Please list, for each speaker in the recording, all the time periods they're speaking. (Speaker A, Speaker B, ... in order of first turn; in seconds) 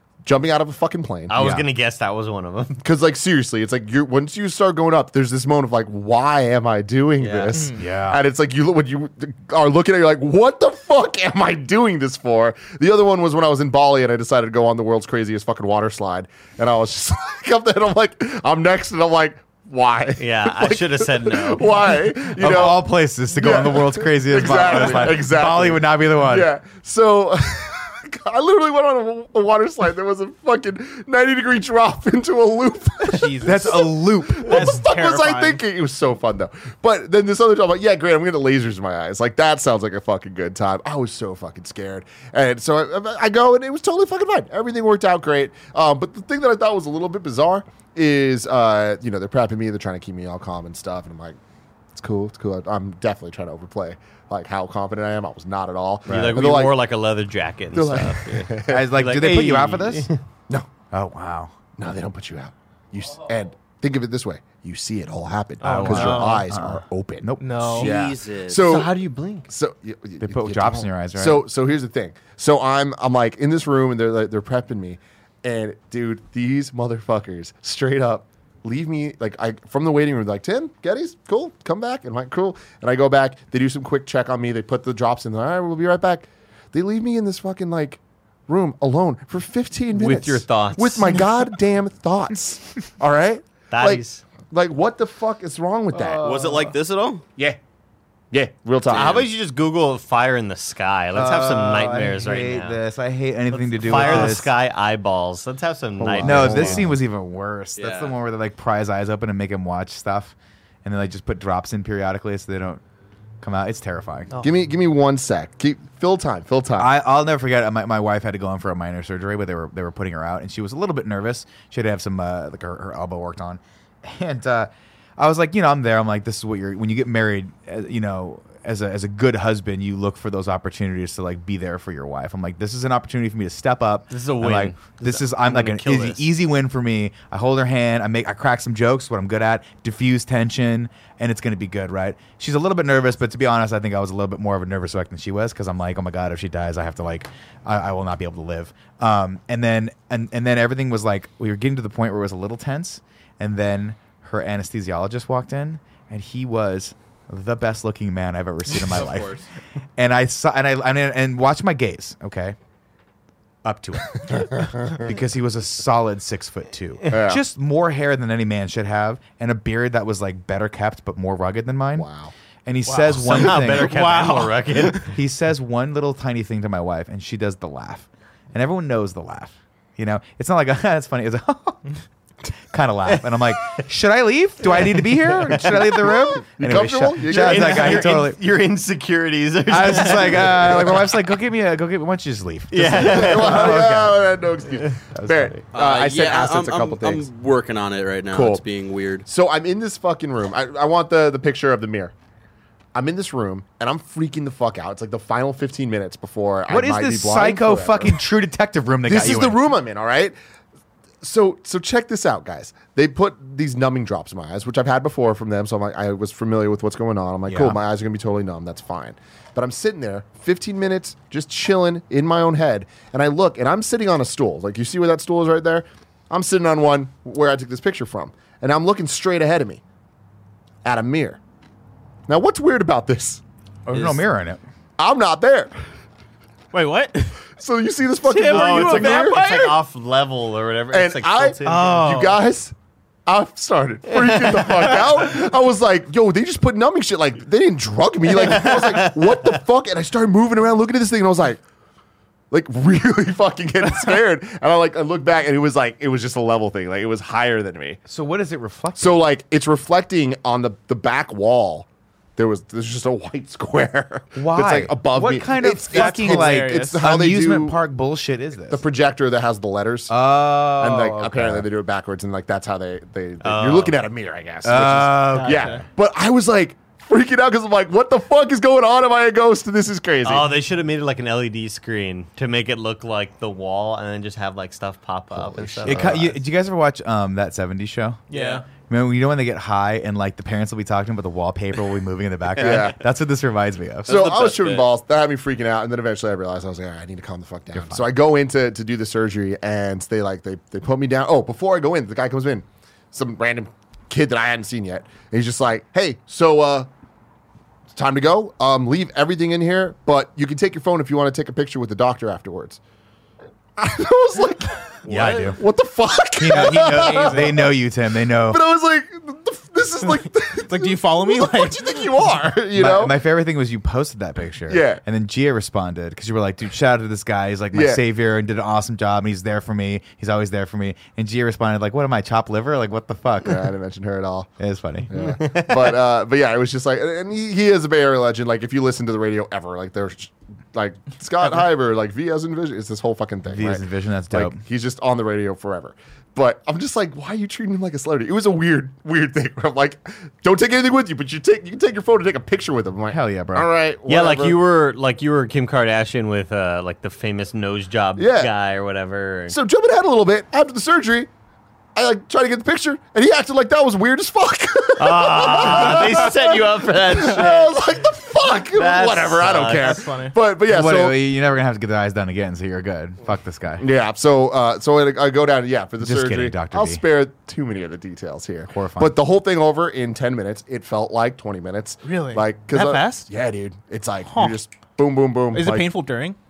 Speaker A: 0.2-1.4, 2.8-51.4, 51.9-56.8, 57.7-59.0, 61.8-68.9, 69.5-96.2, 98.3-99.3, 106.0-107.0, 114.4-116.9, 164.3-164.9, 167.1-167.4, 171.9-172.3, 186.0-188.1, 192.9-197.3, 198.3-198.6, 199.2-202.1, 202.9-208.2, 209.1-210.3, 211.2-229.8, 230.8-231.4, 232.3-233.4, 235.0-235.7, 237.6-239.6, 240.9-242.7, 243.2-251.6, 252.5-258.0, 259.0-267.8, 268.7-270.1, 270.6-280.5, 285.3-286.3, 292.6-293.0, 294.1-306.9, 307.9-312.8, 313.8-317.7, 318.4-323.1, 324.7-325.0, 327.7-328.0, 333.4-334.5, 335.1-354.6, 358.2-358.5, 359.5-361.3, 361.9-371.2, 373.8-385.9
Speaker B: 1.3-2.8, 7.2-7.6, 20.2-21.7, 56.1-60.2, 68.5-69.5, 89.9-91.3, 93.7-94.2, 98.9-102.8, 103.5-106.9, 134.1-136.2, 173.1-175.1, 187.3-191.0, 192.7-194.1, 233.9-234.2, 238.4-241.9, 244.2-244.9, 248.4-249.3, 273.4-274.0, 280.2-286.3, 288.3-288.6, 335.2-335.9, 354.1-359.6, 365.0-367.8, 368.6-370.0
Speaker C: 1.3-1.6, 7.7-8.2, 22.3-26.5, 33.4-34.8, 56.0-56.4, 58.7-60.1, 60.9-61.5, 65.6-67.8, 70.2-71.4, 96.0-96.7, 101.1-104.5, 106.2-112.8, 113.4-114.3, 116.8-159.4, 160.0-162.6, 163.6-172.1, 172.7-173.9, 175.1-181.8, 182.7-188.4, 189.7-194.2, 195.1-195.5, 206.7-209.6, 217.5-217.8, 233.8-234.6, 258.1-259.2, 264.4-268.8, 270.1-271.7, 274.6-275.7, 285.8-288.2, 288.9-294.1, 297.7-298.1, 315.1-315.6, 316.4-318.6, 322.7-333.7, 334.6-335.1, 343.5-344.6, 353.1-353.7, 370.7-373.9, 376.0-377.0, 378.7-379.1
Speaker D: 33.0-35.6, 65.6-66.5, 67.4-67.9, 104.0-104.3, 172.9-175.0, 236.7-237.4, 238.2-239.8, 241.7-242.4, 265.9-267.0, 275.3-275.8, 316.4-317.7, 320.5-322.3, 369.8-370.3, 382.0-383.3, 384.2-384.6, 385.5-386.4
Speaker E: 67.8-68.8, 96.1-97.2, 107.8-108.1, 195.7-199.2, 294.1-294.8